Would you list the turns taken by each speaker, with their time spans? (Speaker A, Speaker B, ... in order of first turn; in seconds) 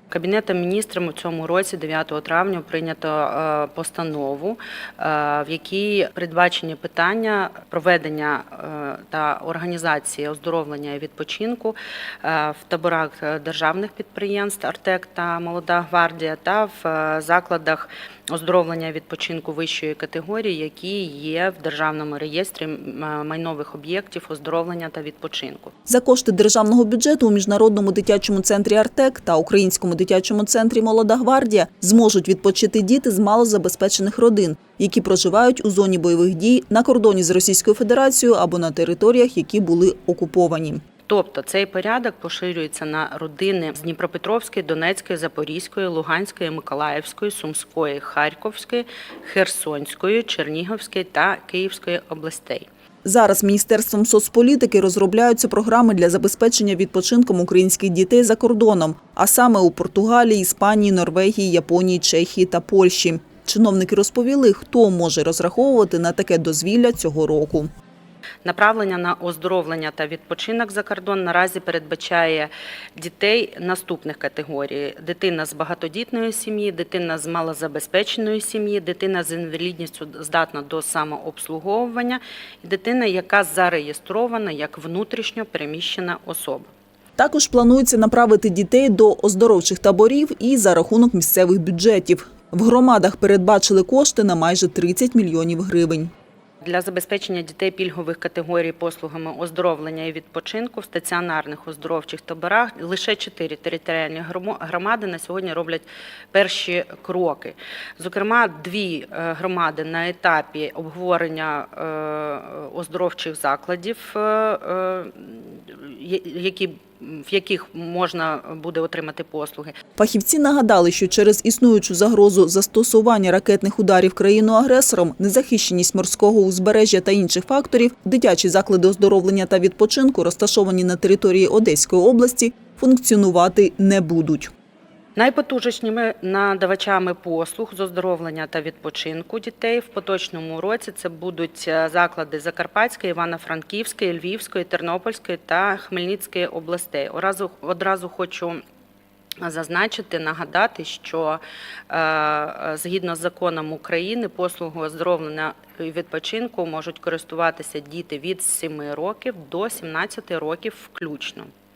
Speaker A: 0.1-25.7, 41.1-52.7, 68.4-86.7, 96.6-119.8, 135.2-148.6, 149.4-161.5
Speaker B: 25.9-40.8, 53.0-67.7, 87.2-96.1, 120.0-134.5